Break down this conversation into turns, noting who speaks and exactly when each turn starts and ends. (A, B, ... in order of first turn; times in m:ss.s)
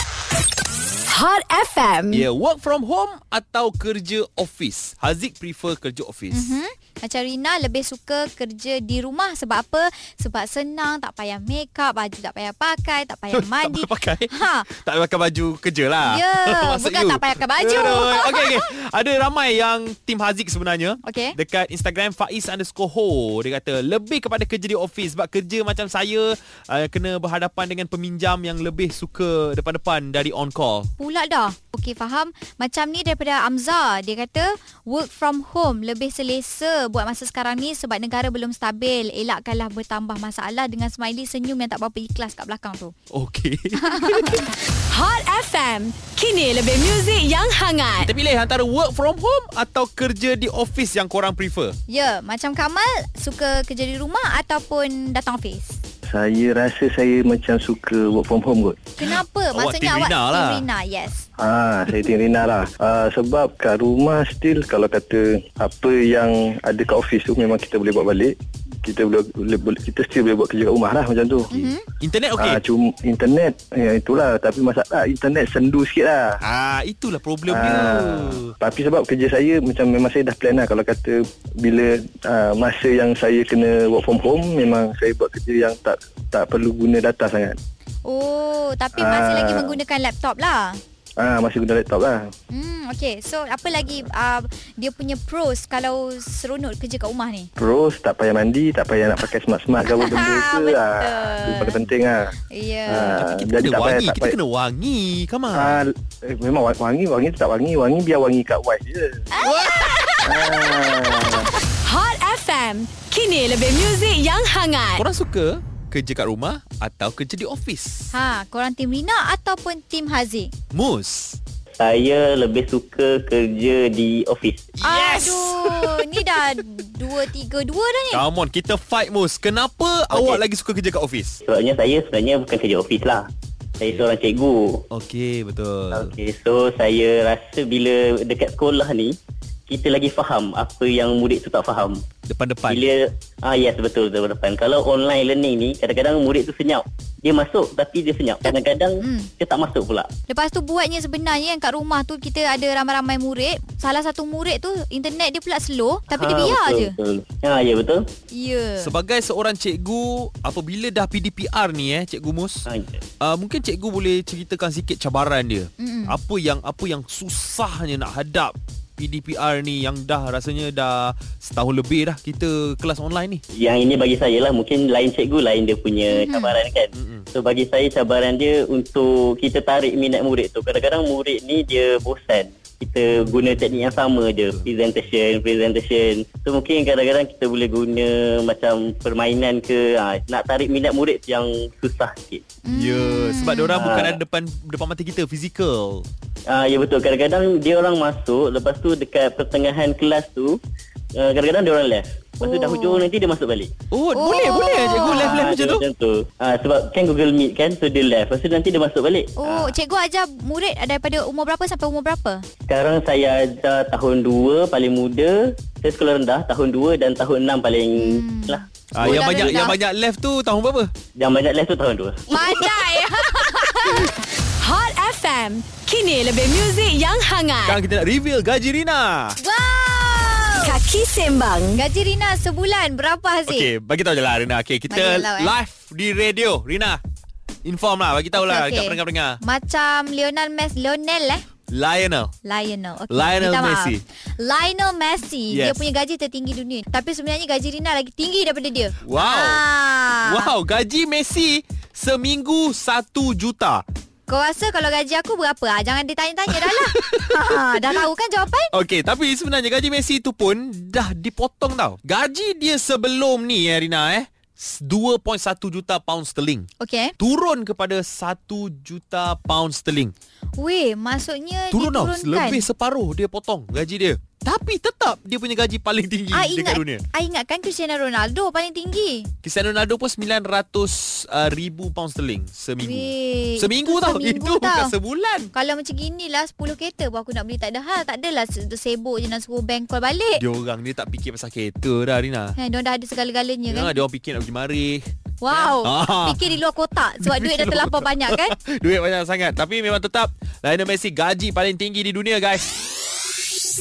0:01.1-0:02.3 A
0:02.1-0:06.6 B
0:06.3-0:14.7 C
0:13.3-0:30.9 B
0:16.0-0:18.6 C
0:21.0-0:21.4 C
0:31.0-0:42.9 C
0:43.1-0:44.4 B
0:43.8-0:44.4 C
0:44.9-0:48.1 A
0:48.0-0:51.8 B
0:51.9-0:55.8 C
0:56.1-0:58.8 D
0:59.0-1:01.3 C
0:59.0-1:00.7 B
1:01.4-1:11.5 D
1:11.5-1:11.8 C
1:11.5-1:12.6 B
1:12.4-1:16.4 D
1:16.4-1:18.5 B
1:17.5-1:27.6 D
1:28.0-1:30.8 C
1:28.9-1:29.8 D
1:31.2-1:32.3 D
1:32.5-1:37.5 C
1:37.6-1:42.3 D
1:40.0-1:41.8 C
1:42.5-1:43.2 C
1:42.9-1:44.4 D
1:43.0-1:45.9 B
1:45.5-1:49.3 D
1:49.4-1:50.1 B
1:50.2-1:51.5 D
1:50.3-1:55.1 A
1:55.0-1:58.2 B
1:58.1-2:00.5 C
2:00.7-2:01.4 B
2:01.8-2:04.7 E
2:04.8-2:06.3 B
2:04.8-2:08.2 C
2:08.1-2:11.4 B
2:10.1-2:10.4 E
2:11.4-2:14.8 E
2:14.9-2:16.1 B
2:15.9-2:19.2 E
2:19.7-2:22.0 E
2:22.3-2:22.9 B
2:22.7-2:30.1 E
2:28.4-2:29.3 C
2:30.3-2:37.0 C
2:36.1-2:38.0 E
2:38.3-2:38.9 C
2:38.8-2:42.7 B
2:42.7-2:43.0 E
2:43.2-2:53.4 B
2:45.8-2:46.2 C
2:53.6-3:12.5 E
2:56.1-2:56.6 C
2:56.9-2:57.3 B
3:03.2-3:03.9 B
3:12.6-3:13.9 C
3:12.7-3:16.1 B
3:13.8-3:14.2 E
3:16.5-3:20.6 E
3:21.2-3:23.7 E
3:22.4-3:23.1 C
3:23.9-3:25.8 B
3:24.1-3:25.5 C
3:24.9-3:29.8 E
3:29.4-3:32.4 C
3:32.7-3:39.4 E
3:38.0-3:39.8 C
3:38.9-3:40.9 B
3:41.2-3:42.2 E
3:42.3-3:44.1 C
3:42.5-3:44.1 A
3:44.6-3:47.8 A
3:47.6-3:49.4 B
3:49.4-3:50.8 C
3:50.6-3:51.8 A
3:51.8-3:53.7 C
3:53.5-3:57.0 B
3:54.9-3:55.6 C
3:57.6-3:59.4 B
3:58.3-4:01.4 C
4:01.7-4:02.3 B
4:02.4-4:10.5 C
4:03.1-4:04.0 B
4:05.5-4:05.9 B
4:09.0-4:09.6 B
4:10.2-4:13.8 B
4:14.3-4:18.7 C
4:16.5-4:18.0 B
4:18.7-4:30.1 B
4:26.8-4:27.2 C
4:30.6-4:32.7 C
4:31.7-4:37.0 B
4:36.3-4:39.3 C
4:39.4-4:45.5 B
4:42.8-4:45.0 C
4:45.5-4:50.4 C
4:50.4-4:52.6 B
4:52.6-4:54.0 C
4:53.7-4:56.5 B
4:55.4-4:58.6 C
4:57.2-5:02.8 B